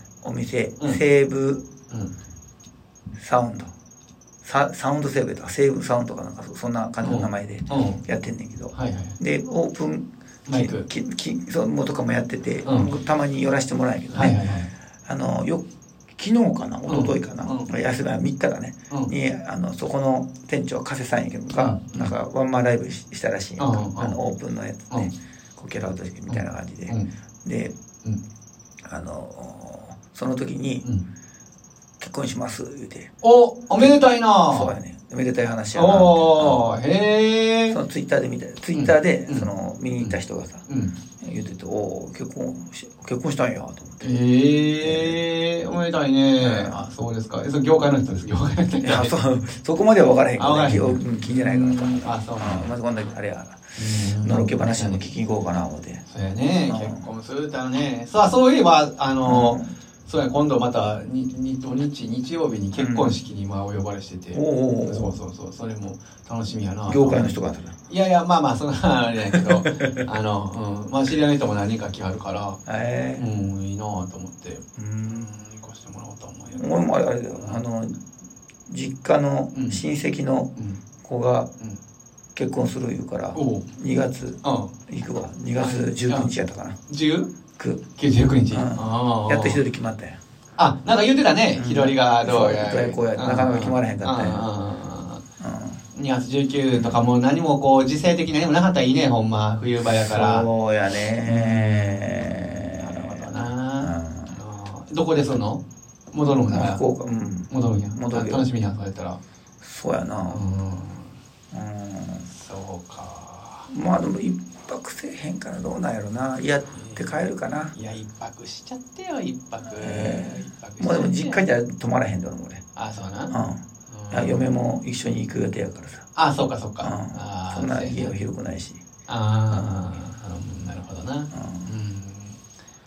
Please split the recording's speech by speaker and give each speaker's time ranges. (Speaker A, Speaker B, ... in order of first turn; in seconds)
Speaker A: 0.2-1.7, 3.2-3.7, 4.4-14.4, 15.1-27.7, 28.9-30.9, 32.0-33.1, 33.8-36.7, 37.7-40.6, 41.2-44.1, 44.8-45.2, 46.4-46.8, 48.8-56.0, 56.7-57.0, 59.2-59.7, 62.8-63.2, 64.3-65.2, 66.9-67.7, 69.3-70.0, 72.7-73.2, 74.8-75.3, 76.5-78.0, 78.7-80.5, 81.0-81.5, 82.3-86.8, 87.6-87.8, 88.5-90.2, 91.6-94.5, 95.4-95.8, 96.7-97.0, 99.8-104.4, 106.5-108.5, 109.6-110.4, 111.5-112.3, 113.7-117.7, 119.7-122.6, 123.3-123.6, 124.1-126.0, 126.8-128.8, 131.3-131.7
Speaker B: 7.0-8.0, 8.7-9.2, 10.5-10.9, 12.7-12.9, 14.1-14.7, 16.9-17.7, 21.5-22.1, 23.6-24.2, 26.3-27.1, 33.2-34.8, 35.8-37.8, 38.8-40.2, 40.7-40.9, 44.0-49.1, 50.4-52.7, 53.8-55.1, 56.1-67.3, 67.9-72.6, 73.2-76.8, 77.4-77.6, 79.5-79.8, 83.3-83.7, 84.4-84.7, 85.6-86.3, 86.9-87.3, 88.0-89.6, 90.6-95.2, 95.9-100.5, 101.2-106.8, 107.5-109.2, 110.3-111.1, 112.3-113.7, 116.8-117.0, 117.7-121.5, 122.8-123.3, 123.9-124.5, 126.2-128.1, 129.1-132.4